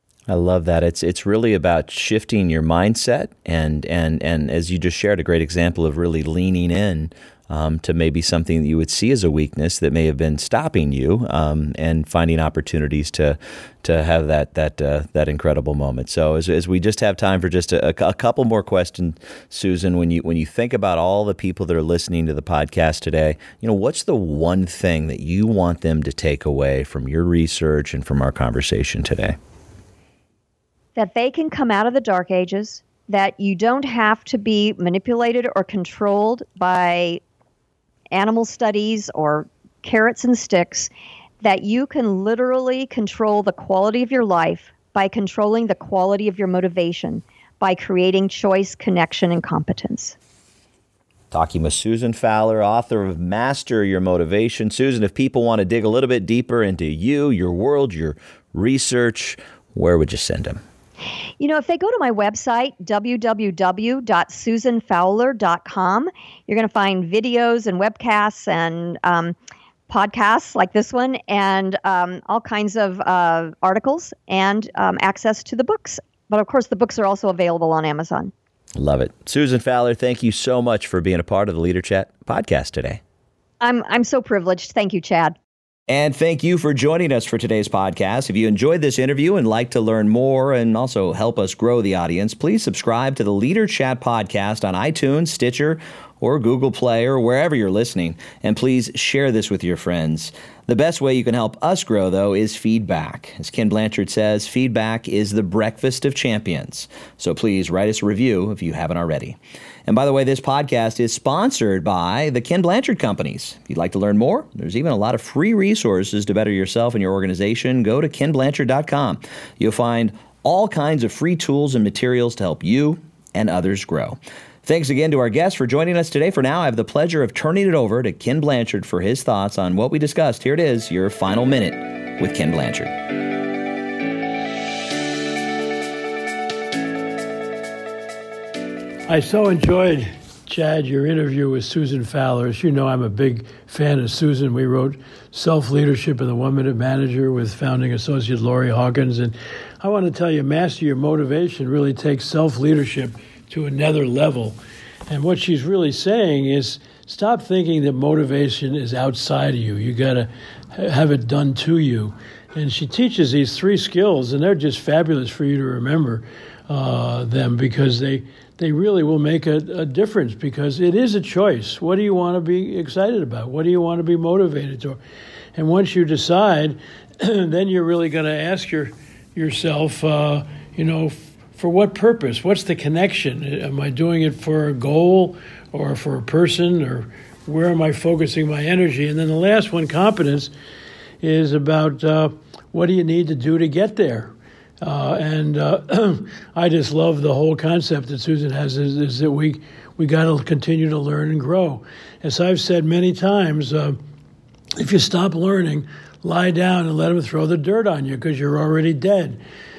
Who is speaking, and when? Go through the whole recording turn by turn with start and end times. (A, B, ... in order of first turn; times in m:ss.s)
0:00.3-0:29.4 A
0:31.0-0:37.2 B
0:38.1-0:40.9 B
0:41.4-0:50.2 B
0:51.3-1:00.6 A
1:01.4-1:09.4 B
1:09.9-1:18.3 B
1:18.8-1:23.0 A
1:23.6-1:25.4 B
1:25.9-2:12.9 A
2:19.1-2:34.6 C
2:35.1-2:55.0 C
2:55.6-3:10.5 C
3:11.2-3:24.0 C
3:24.8-3:29.4 C